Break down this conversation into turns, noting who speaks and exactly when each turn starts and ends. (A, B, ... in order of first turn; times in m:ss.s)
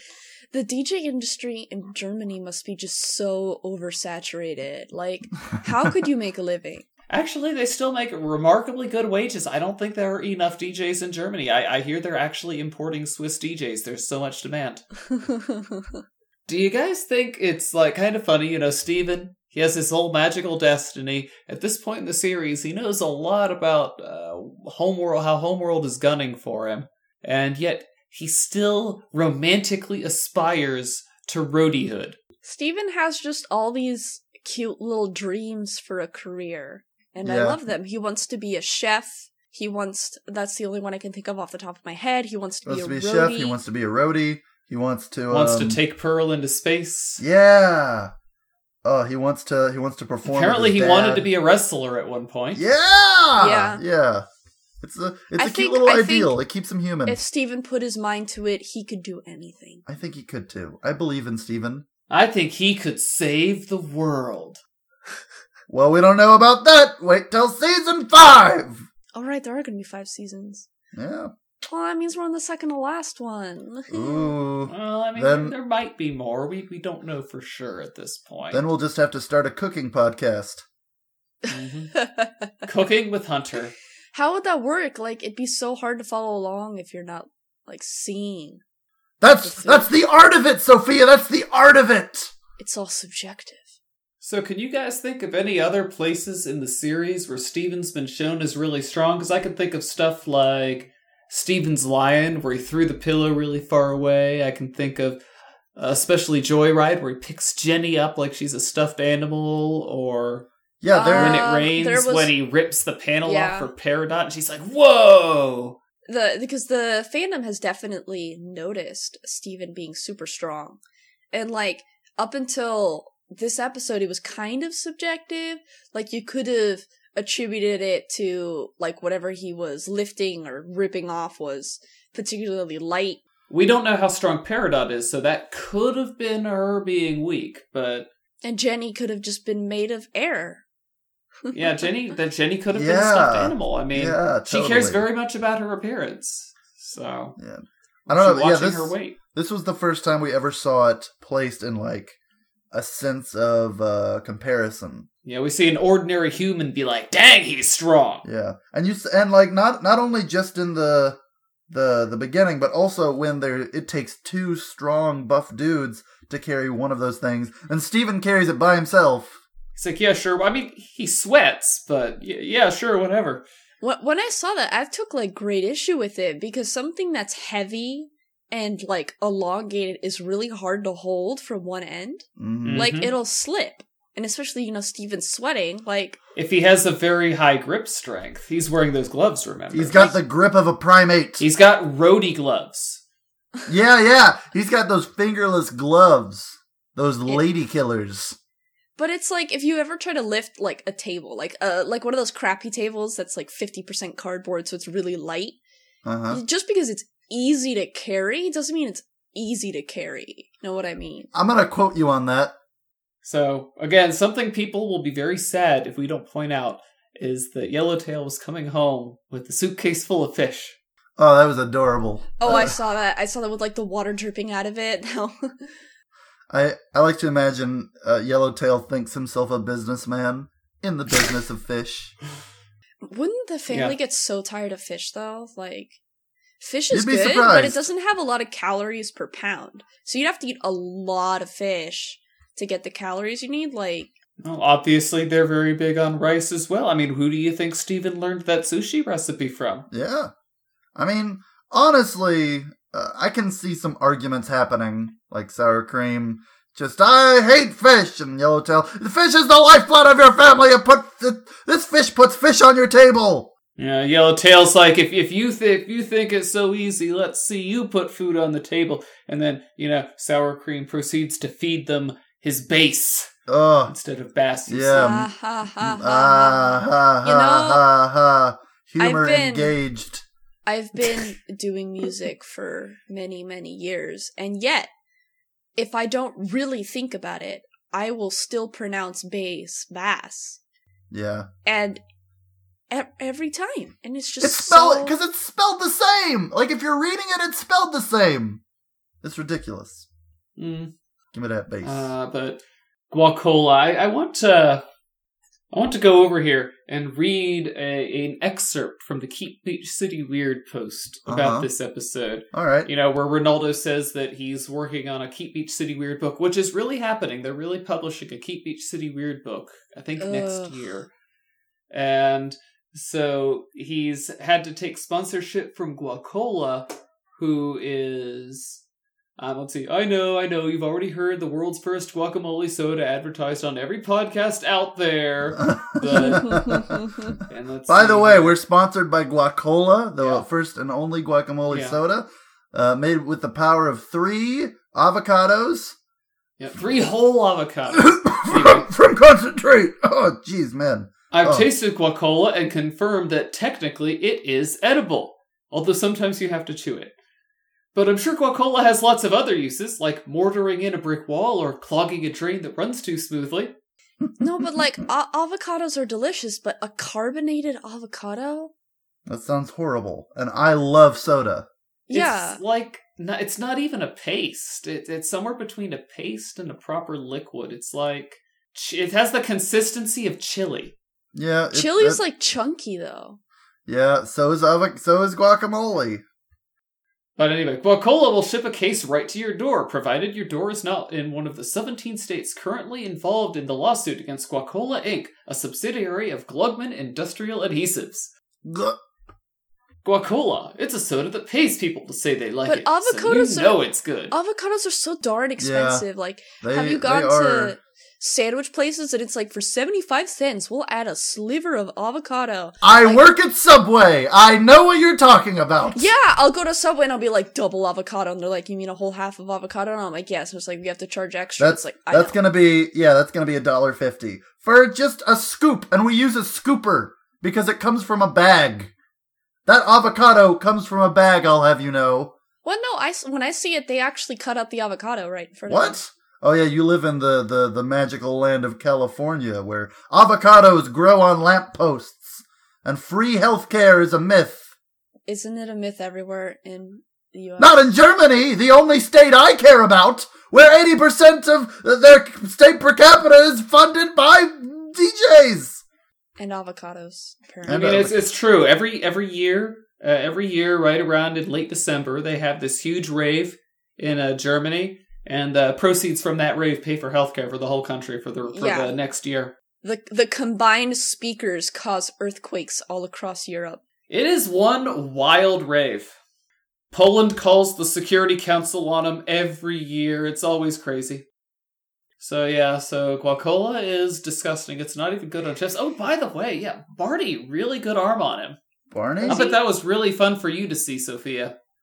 0:00.5-0:06.8 A
0:07.1-0:14.8 B
0:15.1-0:16.0 A
0:16.5-0:32.2 B
0:32.4-0:43.6 A
0:37.2-0:37.6 C
0:42.6-0:45.8 C
0:45.3-0:47.2 B
0:47.2-0:48.1 C
0:48.8-0:51.3 C
0:50.2-0:52.6 B
0:52.5-0:54.2 C
0:53.4-0:53.8 A
0:54.8-0:57.2 C
0:55.4-0:56.3 A
0:57.0-0:59.8 A
0:59.9-1:01.8 C
1:02.1-1:04.6 B
1:05.7-1:08.8 C
1:09.1-1:10.7 A
1:10.9-1:11.3 C
1:11.6-1:14.3 A
1:13.9-1:15.5 C
1:14.7-1:18.6 B
1:18.5-1:20.6 C
1:21.5-1:21.9 B
1:22.0-1:22.5 A
1:22.6-1:23.7 B
1:24.1-1:28.6 A
1:29.2-1:32.3 C
1:29.4-1:29.9 A
1:32.6-1:33.7 A
1:34.2-1:45.2 B
1:45.8-1:50.5 B
1:50.8-1:51.5 C
1:50.9-1:52.3 A
1:51.1-1:55.8 B
1:53.2-1:53.7 A
1:56.1-2:00.8 A
2:01.3-2:13.2 A
2:13.5-2:18.1 B
2:18.4-2:20.6 A
2:21.5-2:27.4 B
2:22.7-2:25.0 C
2:27.4-2:32.2 C
2:28.1-2:29.2 B
2:32.7-2:35.1 C
2:35.2-2:38.2 B
2:38.2-2:41.2 C
2:41.7-2:49.4 C
2:49.8-2:53.4 B
2:53.8-3:06.2 A
3:02.4-3:02.9 C
3:02.6-3:03.1 B
3:06.4-3:10.1 B
3:09.7-3:11.4 C
3:11.4-3:13.0 B
3:13.7-3:18.4 C
3:19.0-3:25.6 A
3:26.0-3:26.4 C
3:26.3-3:31.3 A
3:31.3-3:32.5 C
3:33.2-3:40.8 B
3:41.2-3:42.8 C
3:42.4-3:45.8 A
3:46.5-3:52.1 C
3:53.0-3:56.0 A
3:53.7-3:54.0 B
3:56.6-4:04.1 A
3:56.9-3:57.9 C
4:04.4-4:09.8 B
4:09.9-4:10.3 C
4:10.9-4:23.5 C
4:23.8-4:33.3 B
4:33.5-4:33.9 C
4:33.8-4:35.2 B
4:34.7-4:40.2 C
4:34.9-4:37.8 A
4:39.0-4:39.7 A
4:40.6-4:44.9 A
4:45.8-4:50.6 A
4:51.1-4:51.5 C
4:51.6-4:52.0 A
4:52.9-4:55.1 A
4:54.4-4:58.6 C
4:59.2-5:00.1 C
5:00.6-5:00.9 B
5:01.3-5:02.1 C
5:01.8-5:04.8 B
5:05.7-5:21.1 B
5:11.3-5:11.7 C
5:12.5-5:12.9 C
5:20.2-5:20.8 A
5:21.9-5:28.8 B
5:29.4-5:36.7 B
5:35.6-5:46.0 C
5:36.0-5:37.3 A
5:37.4-5:38.6 B
5:40.2-5:40.4 B
5:41.7-5:42.0 B
5:46.6-5:48.9 B
5:47.9-5:51.7 C
5:51.3-5:57.1 B
5:57.9-6:03.7 B
6:04.4-6:08.7 A
6:09.3-6:11.7 C
6:12.1-6:12.6 A
6:12.1-6:21.0 B
6:21.3-6:22.2 C
6:21.7-6:23.4 A
6:23.9-6:26.2 C
6:27.4-6:38.3 B
6:38.6-6:39.0 C
6:40.0-6:44.3 B
6:42.6-6:53.2 A
6:45.6-6:46.0 C
6:46.6-6:47.8 C
6:52.8-6:56.1 C
6:55.9-7:02.4 A
7:01.6-7:08.9 C
7:09.6-7:12.3 C
7:12.6-7:16.0 A
7:15.7-7:24.7 C
7:25.3-7:27.9 A
7:27.6-7:35.8 C
7:36.4-7:38.1 A
7:37.6-7:38.2 C
7:37.7-7:49.5 B
7:48.5-7:49.0 A
7:49.8-7:53.8 A
7:54.1-7:56.1 B
7:56.9-8:01.2 B
8:02.2-8:08.6 B
8:08.9-8:09.4 C
8:09.2-8:09.6 A
8:09.2-8:11.5 B